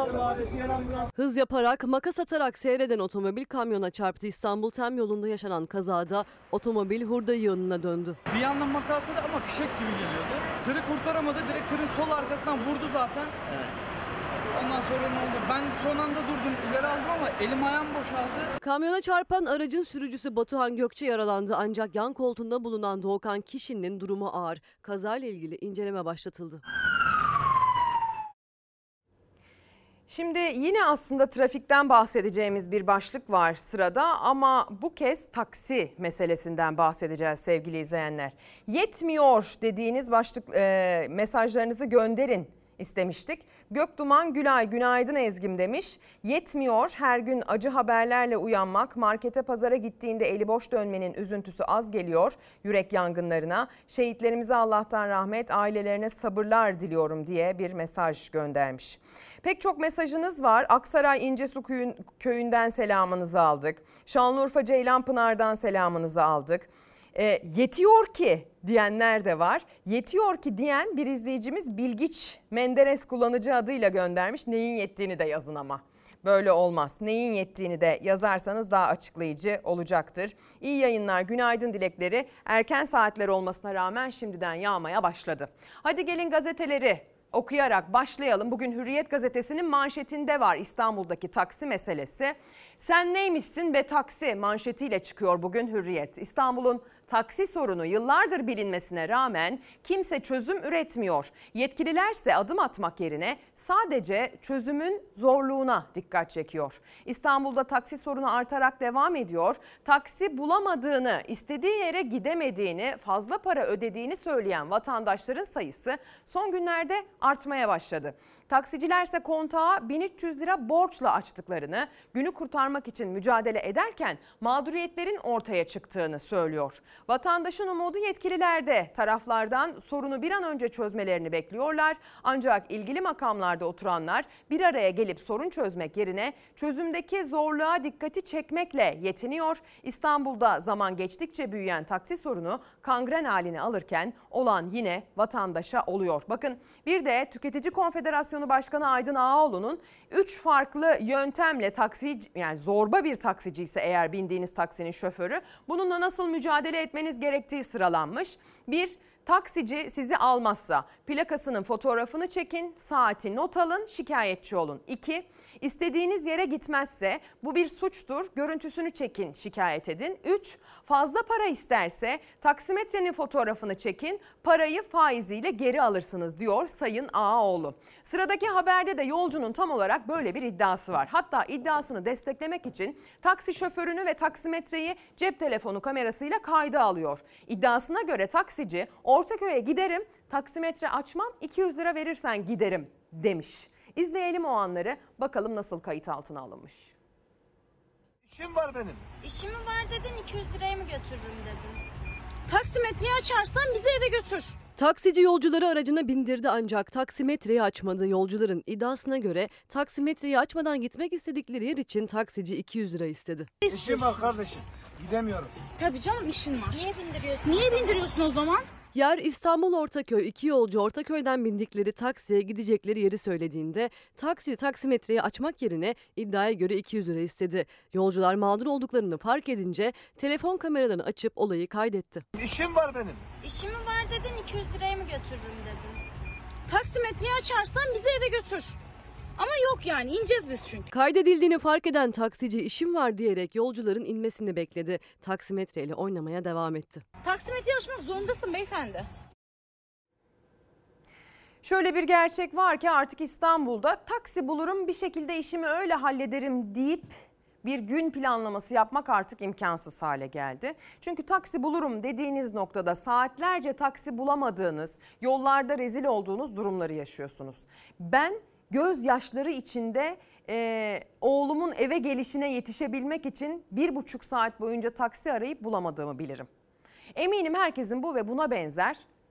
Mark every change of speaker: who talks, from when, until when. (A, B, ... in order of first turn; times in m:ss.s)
0:01.1-0:08.2 A
0:08.3-0:13.3 B
0:14.5-0:18.5 B
0:18.6-0:26.6 A
0:30.1-3:16.9 C
3:18.2-3:19.0 D
3:19.2-3:21.8 E
3:22.5-3:24.6 E
3:24.8-3:33.5 A
3:33.6-3:34.1 E
3:33.7-3:35.5 D
3:35.8-3:38.7 E
3:38.9-3:52.2 A
3:52.4-3:53.2 D
3:53.4-3:56.0 E
3:56.7-3:58.8 E
3:59.4-4:00.9 E
4:00.9-4:07.0 A
4:07.2-4:09.1 E
4:11.6-4:36.5 C
4:37.2-4:39.0 C